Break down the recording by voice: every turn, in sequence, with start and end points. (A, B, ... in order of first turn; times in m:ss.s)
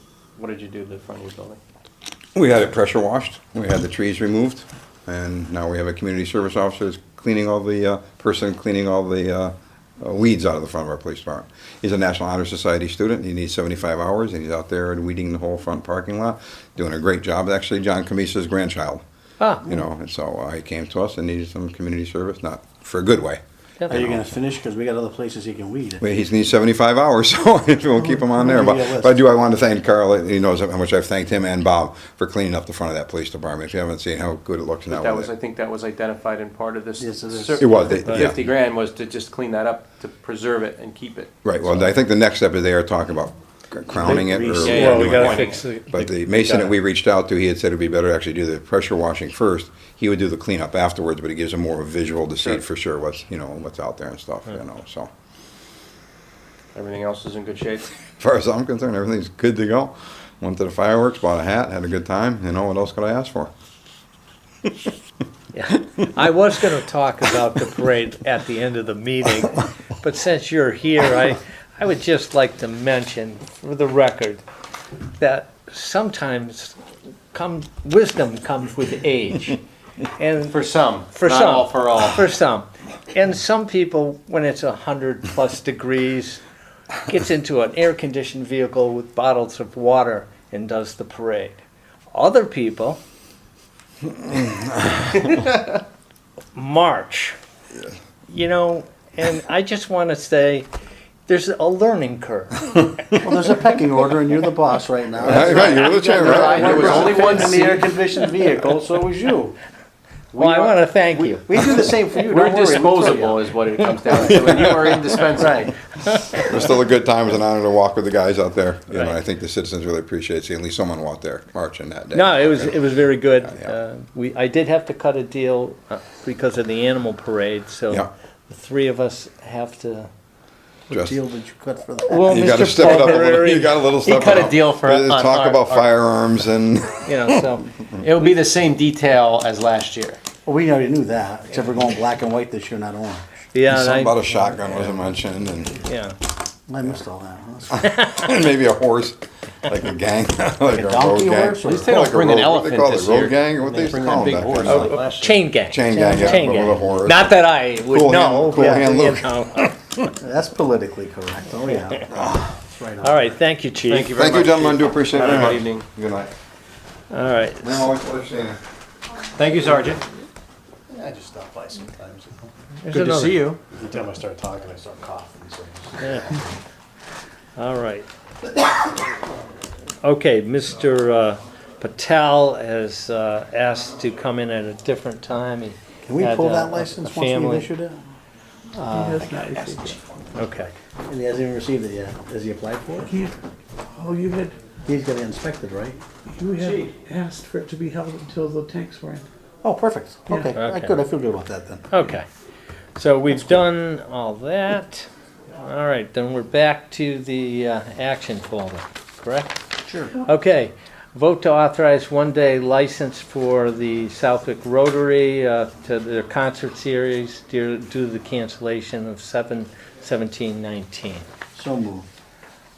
0:00.4-0:01.6 A
0:02.4-0:19.0 B
0:19.4-0:19.7 C
0:19.6-0:24.3 B
0:23.9-0:26.0 D
0:26.0-0:35.3 B
0:28.0-0:29.2 D
0:34.9-0:41.9 A
0:37.0-0:38.0 D
0:37.6-0:38.4 B
0:41.4-0:55.1 B
0:44.0-0:45.7 A
0:44.1-0:46.2 C
0:46.4-0:46.7 A
0:56.7-0:57.9 A
0:58.2-1:03.5 B
1:05.5-1:14.4 C
1:15.2-1:16.8 C
1:17.3-1:20.6 C
1:20.5-1:22.2 A
1:21.1-1:26.4 C
1:27.0-1:33.0 C
1:34.3-1:34.7 B
1:35.0-1:35.4 C
1:36.5-1:37.4 C
1:38.3-1:40.7 C
1:41.3-1:43.2 C
1:43.2-1:49.6 D
1:45.2-1:47.2 B
1:45.3-1:48.0 A
1:50.3-1:51.6 C
1:50.4-1:50.7 D
1:51.3-1:53.4 D
1:52.3-1:55.8 A
1:54.1-1:55.2 B
1:55.4-1:55.7 D
1:56.4-2:03.7 B
1:58.9-1:59.2 C
2:02.1-2:10.1 C
2:10.9-2:11.2 B
2:10.9-2:13.0 D
2:12.1-2:14.0 C
2:12.3-2:18.0 B
2:14.0-2:15.9 A
2:17.1-2:17.7 C
2:18.0-2:20.2 A
2:20.5-2:23.2 D
2:23.5-2:24.9 C
2:23.6-2:25.8 B
2:25.8-2:26.2 C
2:26.7-2:27.8 D
2:27.8-2:35.0 B
2:27.9-2:28.3 C
2:30.6-2:31.9 D
2:31.6-2:35.5 A
2:34.6-2:39.7 C
2:35.7-2:39.7 B
2:38.6-2:38.9 D
2:40.2-2:43.3 D
2:42.1-2:42.4 B
2:43.0-2:44.1 C
2:43.9-2:45.8 A
2:44.1-2:46.3 B
2:47.1-2:47.9 C
2:47.6-2:48.6 B
2:49.4-2:50.0 A
2:50.9-2:52.5 D
2:52.8-2:53.5 C
2:52.9-2:53.6 A
2:53.7-2:56.4 D
2:56.0-2:56.4 C
2:57.6-2:58.1 C
3:00.0-3:07.7 C
3:06.1-3:08.0 D
3:08.8-3:09.3 C
3:08.9-3:10.0 E
3:09.3-3:10.4 B
3:10.4-3:10.7 C
3:11.0-3:13.1 D
3:13.1-3:13.3 E
3:14.0-3:14.6 E
3:14.8-3:16.0 D
3:16.3-3:19.2 E
3:19.6-3:21.9 D
3:20.5-3:21.1 C
3:21.9-3:22.3 C
3:23.0-3:29.6 C
3:29.9-3:30.2 D
3:30.2-3:41.2 C
3:41.5-3:42.1 D